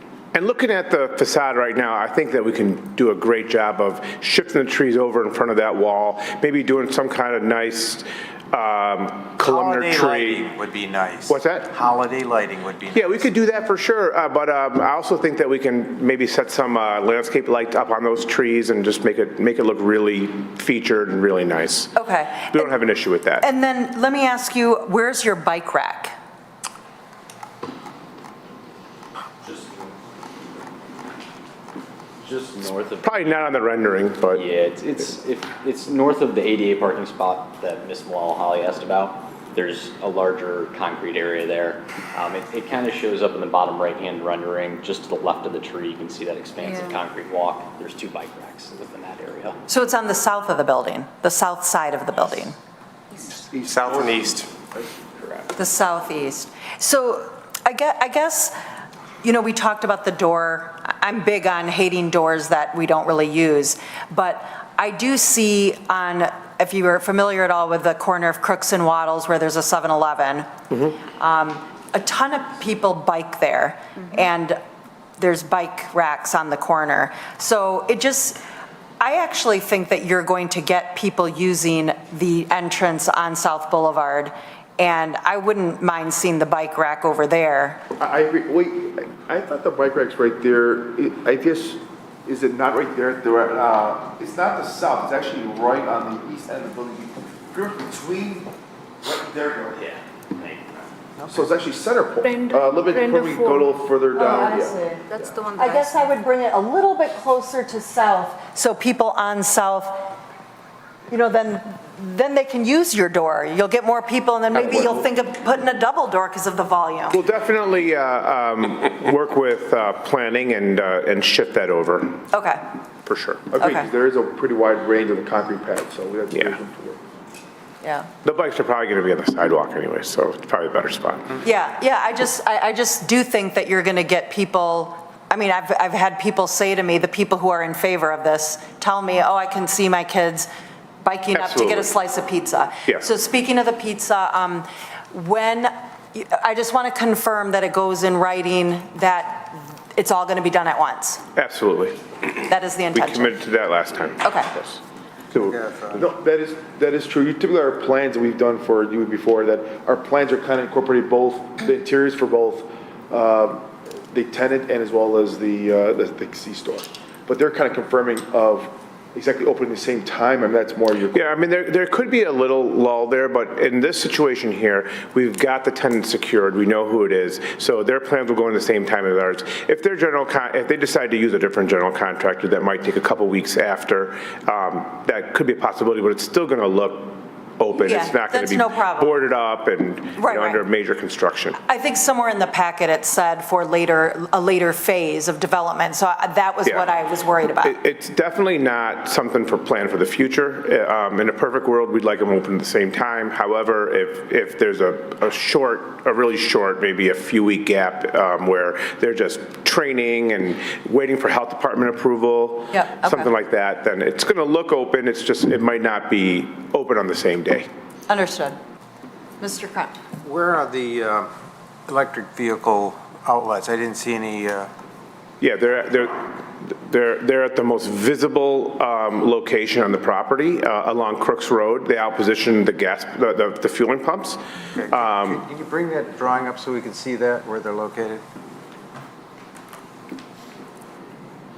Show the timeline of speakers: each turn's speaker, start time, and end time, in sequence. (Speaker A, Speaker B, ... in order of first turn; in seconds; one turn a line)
Speaker A: 0.3-10.5
Speaker B: 9.4-13.3
Speaker A: 11.3-11.7
Speaker A: 12.9-21.9
Speaker C: 21.9-22.7
Speaker A: 22.5-23.5
Speaker C: 23.4-26.1
Speaker D: 32.2-33.3
Speaker A: 33.0-34.4
Speaker D: 34.3-49.6
Speaker E: 46.6-47.0
Speaker C: 49.7-52.6
Speaker F: 53.5-55.5
Speaker C: 55.5-58.5
Speaker C: 59.2-70.5
Speaker C: 71.0-74.6
Speaker C: 75.2-78.4
Speaker C: 79.0-87.8
Speaker F: 88.0-98.5
Speaker F: 99.0-99.9
Speaker D: 99.8-100.6
Speaker F: 101.2-104.8
Speaker E: 102.2-103.8
Speaker C: 104.2-105.0
Speaker E: 104.9-106.0
Speaker C: 105.5-110.1
Speaker C: 111.1-117.2
Speaker F: 114.5-115.0
Speaker A: 117.1-122.2
Speaker C: 122.3-122.6
Speaker A: 123.0-123.4
Speaker F: 123.5-127.0
Speaker C: 123.6-123.9
Speaker A: 126.3-126.6
Speaker C: 127.8-128.1
Speaker A: 128.2-131.3
Speaker C: 131.4-140.5
Speaker C: 141.0-151.2
Speaker A: 141.3-141.9
Speaker A: 151.3-152.0
Speaker C: 152.4-153.4
Speaker A: 152.9-154.8
Speaker C: 154.2-154.5
Speaker B: 155.3-156.0
Speaker F: 155.9-171.3
Speaker A: 171.1-191.6
Speaker C: 187.7-189.2
Speaker C: 190.2-190.6
Speaker C: 191.6-197.8
Speaker A: 196.7-196.9
Speaker A: 197.6-217.7
Speaker C: 212.7-213.3
Speaker C: 218.1-218.6
Speaker C: 219.4-219.9
Speaker B: 220.2-221.3
Speaker B: 221.9-224.7
Speaker A: 225.4-235.4
Speaker B: 234.8-238.2